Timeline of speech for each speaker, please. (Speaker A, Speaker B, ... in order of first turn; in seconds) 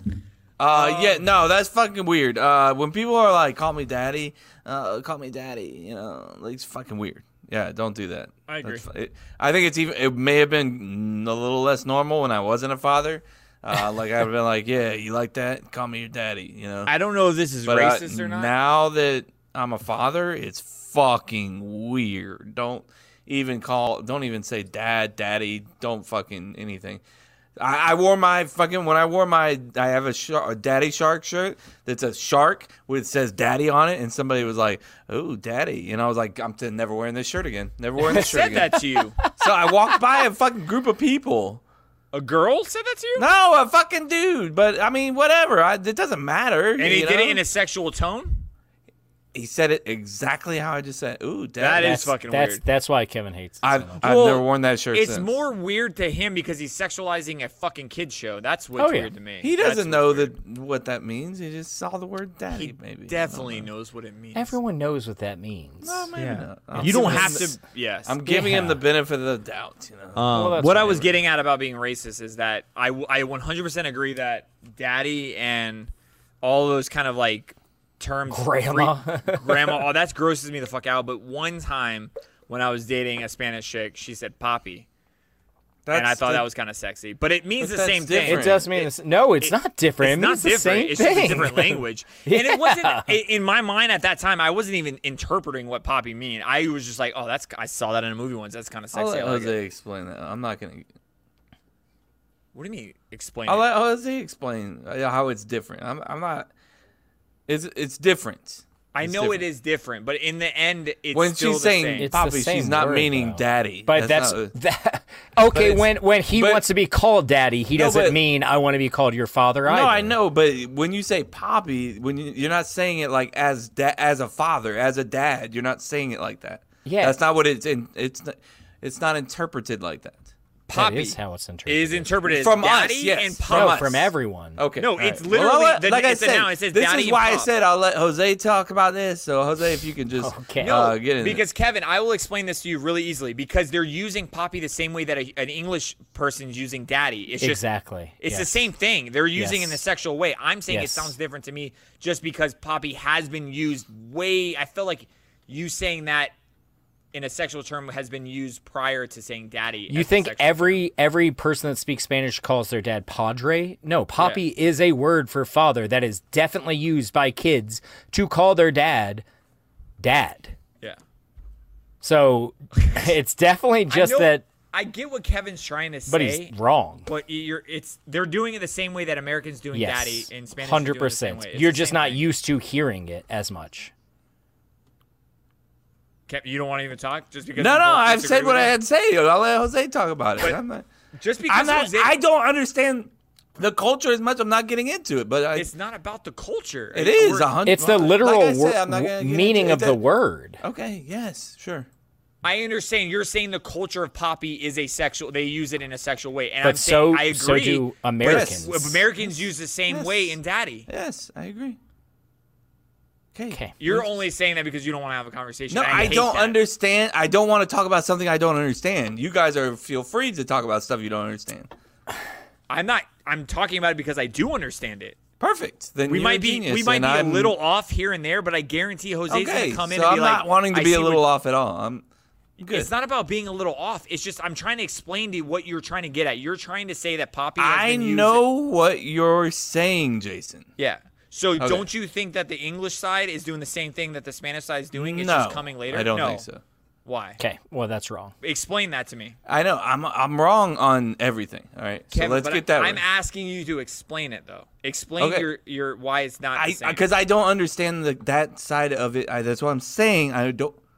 Speaker A: 0.6-16.9, 17.6-27.0, 27.6-38.8, 39.3-41.6, 43.2-47.4, 49.3-52.1, 53.6-55.4, 59.4-63.7, 65.8-67.5, 68.1-70.3, 85.9-86.5, 87.6-88.7, 98.9-100.9, 103.5-106.5, 107.5-109.5, 111.1-114.5, 115.5-116.6, 117.8-118.2, 119.7-130.3, 132.3-141.4, 187.6-190.9, 191.5-195.7, 196.9-200.0, 200.6-201.9, 208.2-208.7, 209.9-210.4, 210.9-211.8, 213.3-214.1, 215.7-221.7, 225.4-227.6, 229.3-232.0, 232.6-232.9, 237.6-240.7, 241.6-241.9, 244.9-246.6, 249.5-253.0, 255.2-255.5, 256.6-260.8
Speaker B: 0.7-1.3, 8.5-8.8, 16.9-18.5, 38.1-39.2, 42.1-43.3, 46.8-48.5, 51.6-52.6, 54.0-60.3, 62.5-64.6, 66.2-68.2, 70.2-75.9, 76.4-84.9, 85.9-99.6, 102.5-103.7, 108.9-112.1, 130.7-133.9, 134.8-137.5, 141.2-147.7, 148.2-156.3, 157.1-160.8, 164.2-164.4, 173.9-176.5, 177.1-182.2, 186.3-188.7, 191.2-192.1, 195.6-197.6, 202.4-210.9, 213.8-216.6, 222.7-225.2, 226.1-231.3, 232.6-238.4, 240.8-246.5, 247.1-247.4, 248.4-249.4, 252.1-257.1
Speaker C: 51.8-54.3, 58.8-59.1, 64.3-67.5, 68.3-68.8, 70.3-71.1, 78.3-79.8, 88.2-93.2, 112.0-120.2, 126.8-127.2, 130.7-132.1, 133.5-134.6, 140.2-141.0, 147.4-148.6, 149.3-149.8, 150.7-151.1, 159.9-169.2, 170.0-170.6, 172.0-174.4, 176.1-177.1, 179.7-183.9, 197.7-200.6, 206.6-209.0, 247.4-248.3